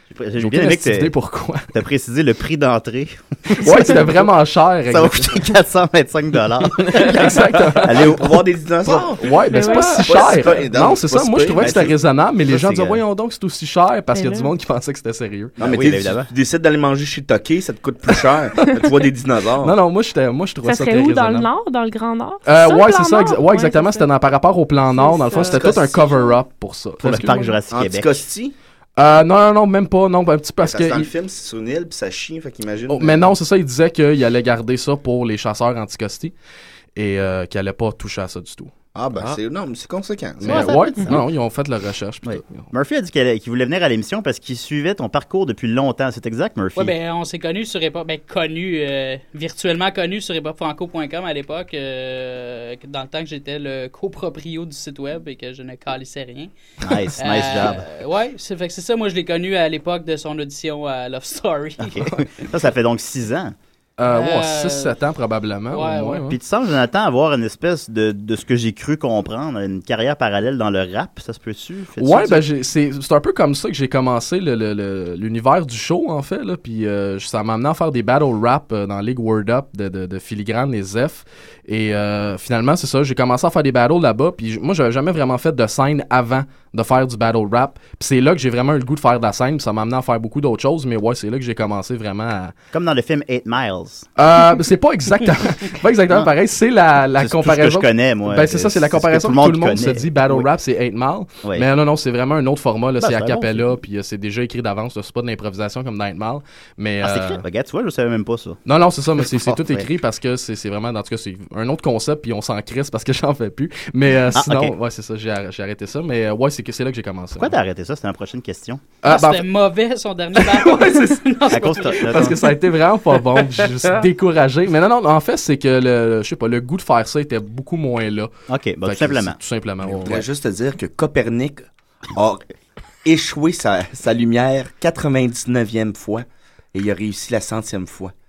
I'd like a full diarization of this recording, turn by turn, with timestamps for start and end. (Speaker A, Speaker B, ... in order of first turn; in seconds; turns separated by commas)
Speaker A: 0.1-1.1, Speaker B: 0.4-1.7, Speaker A: 1.7-4.0, Speaker B: 3.6-5.5, Speaker C: 3.7-4.0, Speaker A: 4.9-8.4, Speaker B: 6.8-8.1, Speaker D: 7.9-11.9, Speaker B: 8.8-15.6, Speaker C: 9.5-10.4, Speaker A: 11.6-13.0, Speaker C: 14.1-14.5, Speaker A: 15.6-16.3, Speaker D: 15.6-19.8, Speaker B: 19.6-21.5, Speaker C: 20.6-24.1, Speaker B: 22.4-27.5, Speaker C: 24.9-25.6, Speaker D: 25.4-26.4, Speaker A: 27.0-28.2, Speaker D: 27.7-28.6, Speaker B: 29.0-31.1, Speaker D: 30.6-33.4, Speaker B: 32.9-36.3, Speaker B: 37.0-38.7, Speaker D: 39.0-40.7, Speaker B: 40.4-42.7, Speaker A: 40.5-41.2, Speaker A: 42.2-47.0, Speaker E: 46.8-56.5, Speaker A: 56.8-57.9, Speaker E: 57.2-62.0, Speaker A: 61.8-63.5, Speaker B: 64.0-66.4, Speaker E: 64.1-65.0, Speaker E: 65.7-66.2, Speaker A: 66.2-72.5, Speaker B: 72.0-92.5, Speaker A: 92.7-94.1, Speaker B: 94.2-107.4, Speaker A: 97.2-100.5, Speaker A: 103.0-103.8, Speaker A: 107.0-108.6, Speaker B: 108.7-117.5, Speaker A: 109.2-109.9, Speaker A: 114.3-114.7, Speaker A: 117.4-118.8, Speaker B: 119.0-119.4, Speaker E: 119.0-122.2, Speaker B: 120.4-121.2, Speaker A: 121.5-122.4, Speaker B: 121.8-128.3, Speaker A: 128.5-129.4, Speaker B: 128.9-130.2, Speaker D: 129.9-132.4, Speaker D: 133.1-138.1